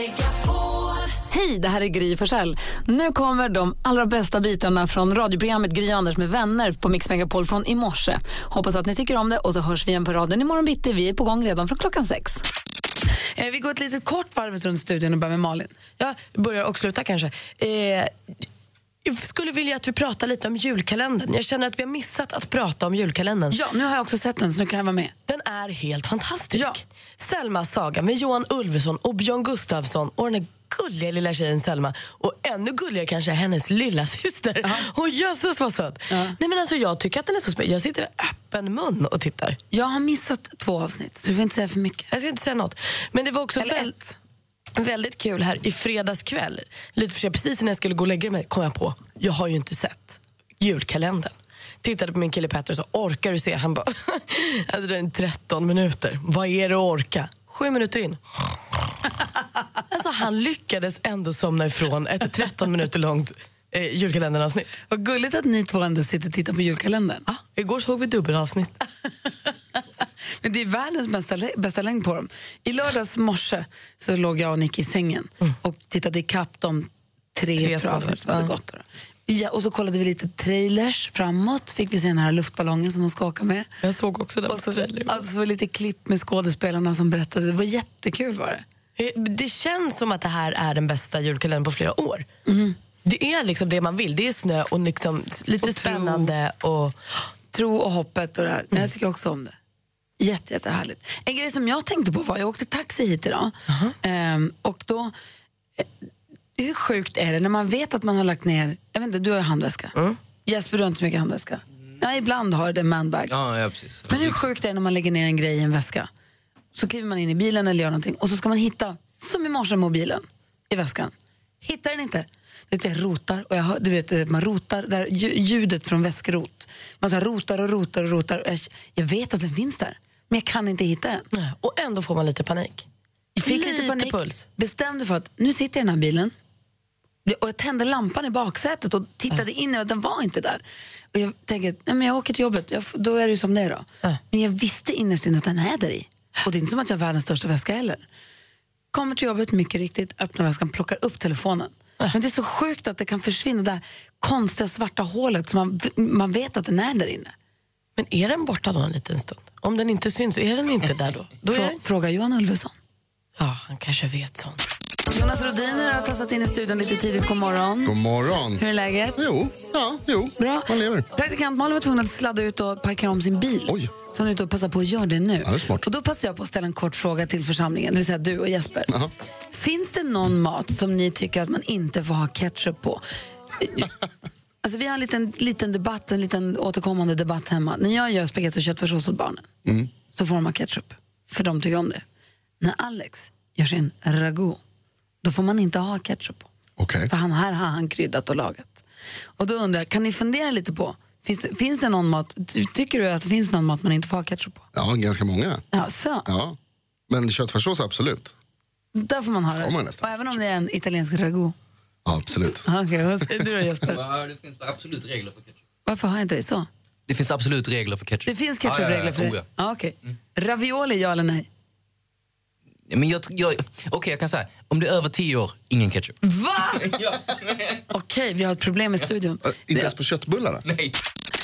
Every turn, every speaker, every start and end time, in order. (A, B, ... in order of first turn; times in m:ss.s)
0:01.3-0:12.4 A
0:13.4-0:15.7 B
0:16.0-0:18.1 C
0:19.0-0:23.6 C
0:23.5-0:25.1 B
0:25.3-0:39.6 C
0:34.6-0:34.9 B
0:36.1-0:36.4 B
0:39.7-0:42.1 B
0:42.1-0:43.9 C
0:43.6-0:44.2 B
0:44.8-0:58.2 C
0:59.9-1:04.7 C
1:04.9-1:07.2 B
1:07.3-1:08.7 C
1:10.4-1:23.7 B
1:17.6-1:18.5 C
1:23.8-1:25.2 C
1:24.5-1:28.6 B
1:29.0-1:32.2 C
1:32.5-1:32.7 B
1:33.0-1:37.0 C
1:35.6-1:36.3 B
1:37.5-1:39.5 B
1:40.2-1:45.1 B
1:43.7-1:44.0 C
1:46.6-1:49.9 B
1:50.4-1:53.3 B
1:53.3-1:54.4 D
1:54.1-1:56.1 B
1:56.7-2:11.2 B
2:11.3-2:12.8 C
2:13.4-2:16.3 B
2:13.4-2:14.4 C
2:17.2-2:28.0 B
2:28.9-2:37.3 B
2:38.0-2:41.8 C
2:41.5-2:42.7 B
2:43.4-2:44.6 C
2:45.1-2:47.9 B
2:47.8-2:48.6 E
2:48.6-2:49.2 B
2:49.2-2:51.1 E
2:50.4-2:58.9 B
2:53.7-2:53.9 E
2:55.4-2:55.8 E
2:59.5-3:03.0 B
3:03.6-3:03.9 B
3:04.6-3:09.5 B
3:10.0-3:12.0 B
3:12.6-3:14.6 B
3:15.2-3:16.5 B
3:16.8-3:17.1 E
3:17.1-3:18.8 B
3:19.4-3:24.6 B
3:24.7-3:25.6 E
3:25.7-3:26.3 B
3:26.3-3:26.5 E
3:27.1-3:28.3 E
3:28.9-3:31.5 B
3:29.5-3:30.4 E
3:32.0-3:32.6 E
3:32.6-3:34.0 B
3:33.2-3:34.0 C
3:33.8-3:35.5 D
3:35.8-3:36.7 B
3:37.1-3:39.4 D
3:38.2-3:41.4 B
3:42.9-3:46.1 D
3:46.2-3:47.0 B
3:46.9-3:47.2 D
3:47.9-3:49.9 B
3:49.4-3:50.6 E
3:50.6-3:50.9 D